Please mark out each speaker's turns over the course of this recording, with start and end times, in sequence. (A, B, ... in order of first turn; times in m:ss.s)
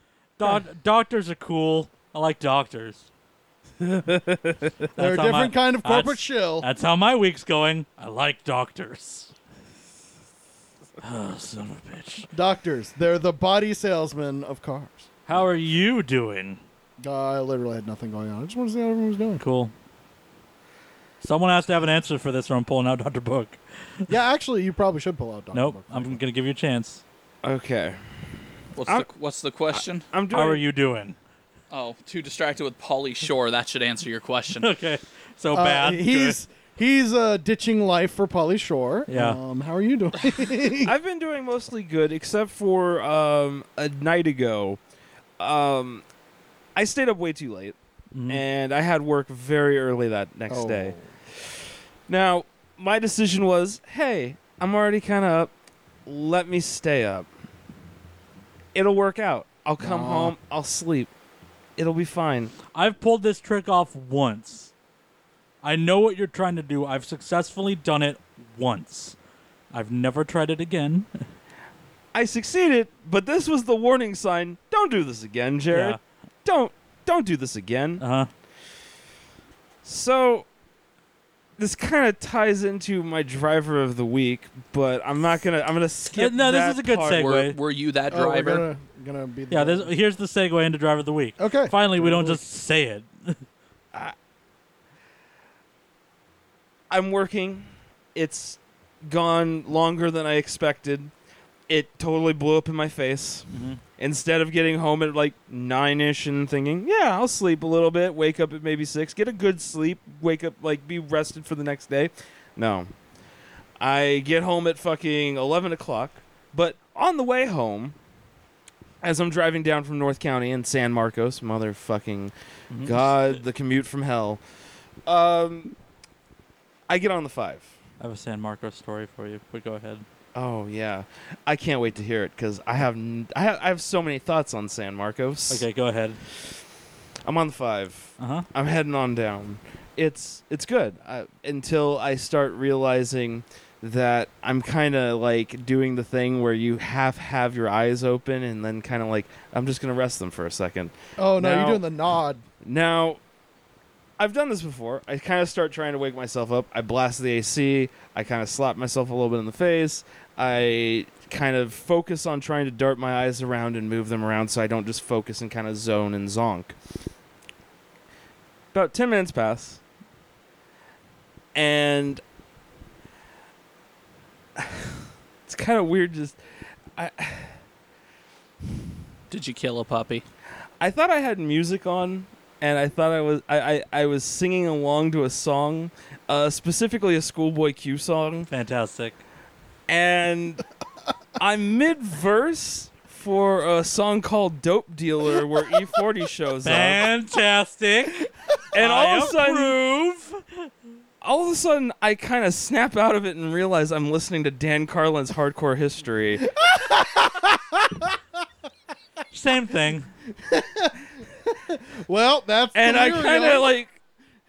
0:00.4-0:03.0 A
0:03.8-0:04.7 B
0:05.0-0:06.7 C
0:05.0-0:09.3 A
0:11.0-0:12.3 A
0:12.3-0:15.1 C
0:15.3-0:16.6 A
0:17.0-0:19.4 C
0:19.4-0:19.7 A
0:21.2-0:24.1 A
0:24.1-0:26.2 C
0:25.5-0:27.0 A
0:27.4-0:28.0 B
0:28.8-0:30.0 D
0:29.7-0:30.6 B
0:30.3-0:31.2 A
0:31.7-0:34.7 D
0:34.6-0:36.4 A
0:35.5-0:40.9 C
0:39.1-0:39.4 A
0:40.7-0:44.8 B
0:45.4-0:46.0 B
0:46.7-0:47.8 B
0:48.1-0:48.4 A
0:48.3-0:51.5 B
0:50.5-0:51.0 C
0:52.1-0:55.5 B
0:56.0-0:57.3 B
0:58.7-1:01.1 B
0:59.8-1:00.3 C
1:01.8-1:02.5 B
1:02.7-1:04.7 A
1:05.6-1:09.2 A
1:09.7-1:11.1 A
1:12.1-1:18.0 B
1:15.7-1:16.0 A
1:18.0-1:18.3 A
1:19.8-1:20.5 B
1:21.6-1:27.3 B
1:26.1-1:27.6 A
1:27.0-1:28.6 D
1:28.1-1:29.9 C
1:29.5-1:33.4 A
1:31.4-1:32.4 C
1:36.9-1:41.1 B
1:41.7-1:52.9 B
1:43.5-1:43.8 A
1:53.8-1:58.0 B
1:59.0-2:04.4 B
2:02.7-2:03.1 A
2:05.0-2:05.8 B
2:06.9-2:07.7 B
2:08.0-2:10.0 A
2:10.3-2:15.6 B
2:15.5-2:16.2 A
2:17.2-2:31.8 B
2:18.2-2:18.4 A
2:31.2-2:32.4 C
2:32.6-2:33.2 B
2:34.2-2:46.8 B
2:48.7-2:49.8 B
2:51.5-2:52.2 B
2:54.6-2:56.4 B
2:56.9-2:57.6 B
2:59.3-3:00.2 D
3:00.8-3:08.5 B
3:08.5-3:09.2 A
3:09.9-3:10.6 B
3:11.4-3:17.1 B
3:16.6-3:20.7 A
3:18.7-3:19.8 B
3:21.2-3:26.5 B
3:26.4-3:28.2 C
3:29.3-3:30.1 A
3:30.4-3:33.7 C
3:32.7-3:34.0 B